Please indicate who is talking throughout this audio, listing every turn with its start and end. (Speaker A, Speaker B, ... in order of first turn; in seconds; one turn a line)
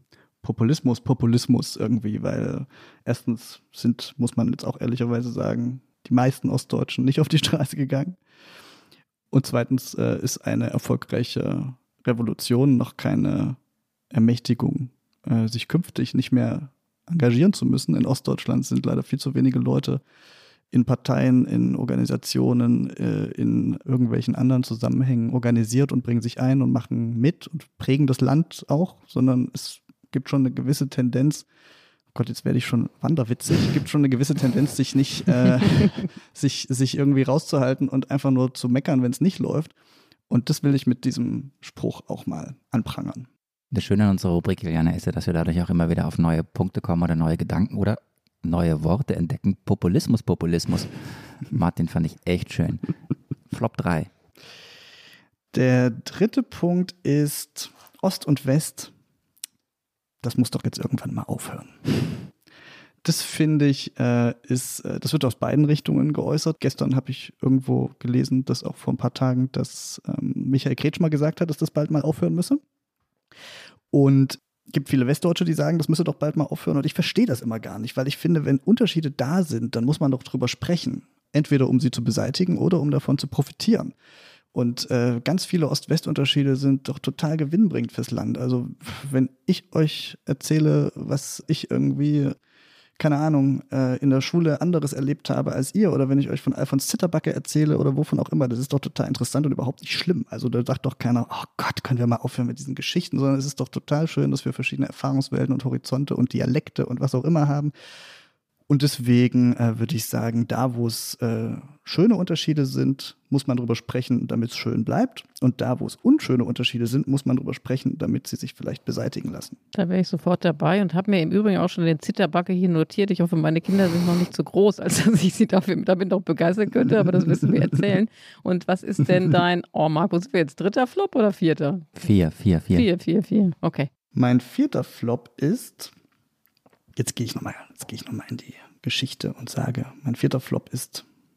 Speaker A: 0.4-8.2
Speaker A: 9.3-13.6
Speaker A: 14.1-20.0
Speaker A: 20.7-31.5
Speaker A: 32.1-39.7
Speaker A: 40.3-43.3
Speaker B: 43.7-52.9
Speaker B: 53.5-54.1
Speaker A: 55.5-58.9
Speaker A: 60.2-62.3
Speaker A: 63.0-72.6
Speaker A: 73.9-83.9
Speaker A: 84.5-92.4
Speaker A: 93.0-107.7
Speaker A: 108.7-119.6
Speaker C: 119.7-132.0
Speaker B: 132.0-132.9
Speaker C: 132.7-133.9
Speaker A: 134.1-135.9
Speaker A: 136.9-141.0